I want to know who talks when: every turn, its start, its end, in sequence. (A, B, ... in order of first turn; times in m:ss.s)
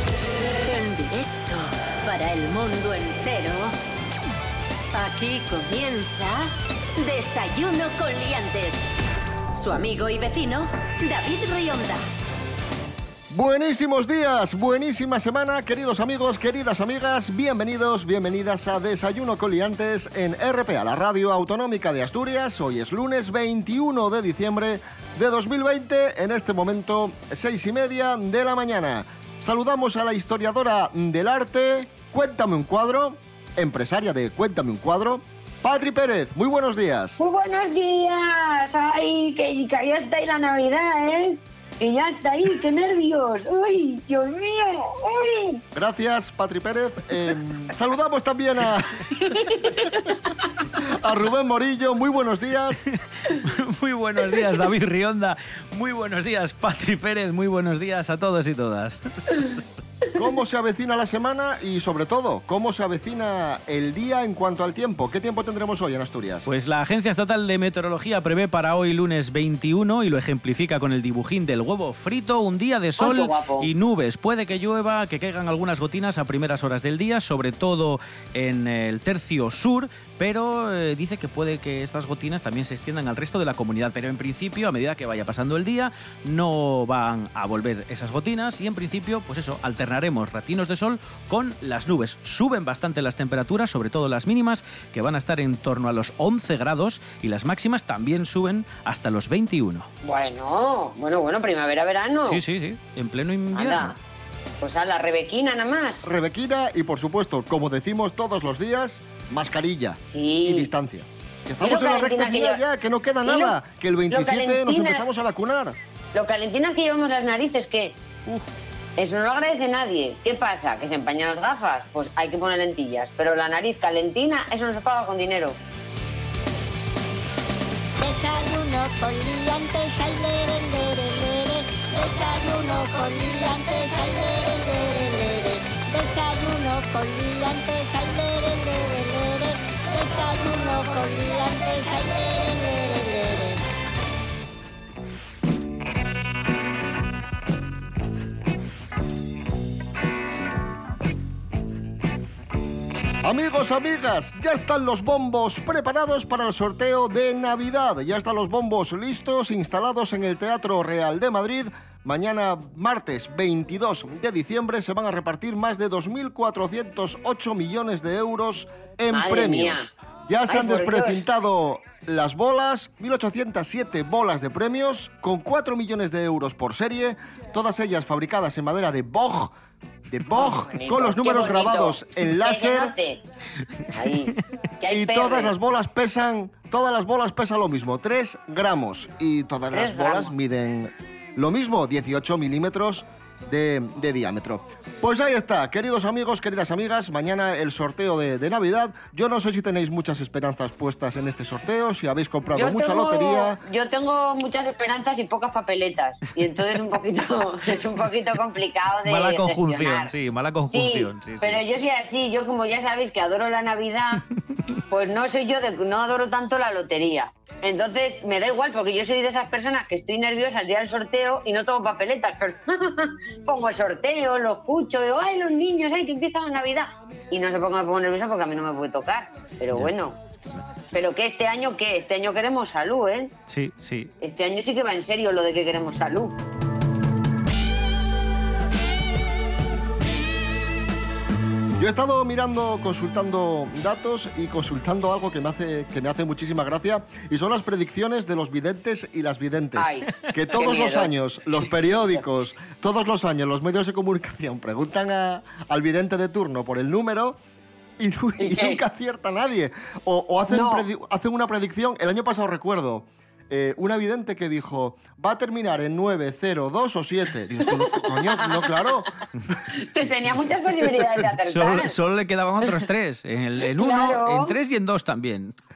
0:00.6-0:03.7 A
0:04.9-0:06.4 A
0:07.0-0:08.8 A
0:09.6-0:12.0 A
0:13.3-0:37.2 B
0:37.2-0:45.6 C
0:45.7-0:49.0 B
0:49.2-0:50.1 C
0:50.8-0:52.8 B
0:53.3-0:59.6 D
1:00.2-1:06.5 B
1:06.5-1:39.9 D
1:13.0-1:13.7 C
1:40.0-1:42.4 C
1:42.2-1:44.0 D
1:43.6-1:43.9 C
1:44.6-1:46.0 C
1:46.0-1:55.8 B
1:50.1-1:50.7 C
1:51.6-1:52.6 C
1:53.3-1:53.5 C
1:54.1-1:55.0 C
1:56.1-1:58.4 C
1:59.0-2:05.6 C
2:08.0-2:23.6 E
2:33.2-2:59.5 B
2:49.1-2:49.9 C
2:50.5-2:51.2 C
3:00.1-3:02.9 B
3:00.3-3:03.2 C
3:03.9-3:05.5 C
3:04.9-3:23.6 B
3:09.7-3:10.3 C
3:22.6-3:30.1 C
3:29.1-3:31.7 D
3:30.7-3:34.2 C
3:34.9-3:50.2 C
3:50.9-3:53.3 C
3:53.5-3:54.1 D
3:54.2-3:56.4 C
4:01.8-4:17.4 B
4:09.8-4:11.1 C
4:18.0-4:29.1 B
4:18.4-4:18.8 C
4:20.5-4:20.8 C
4:29.8-4:31.9 C
4:31.4-4:35.6 D
4:33.8-4:34.6 C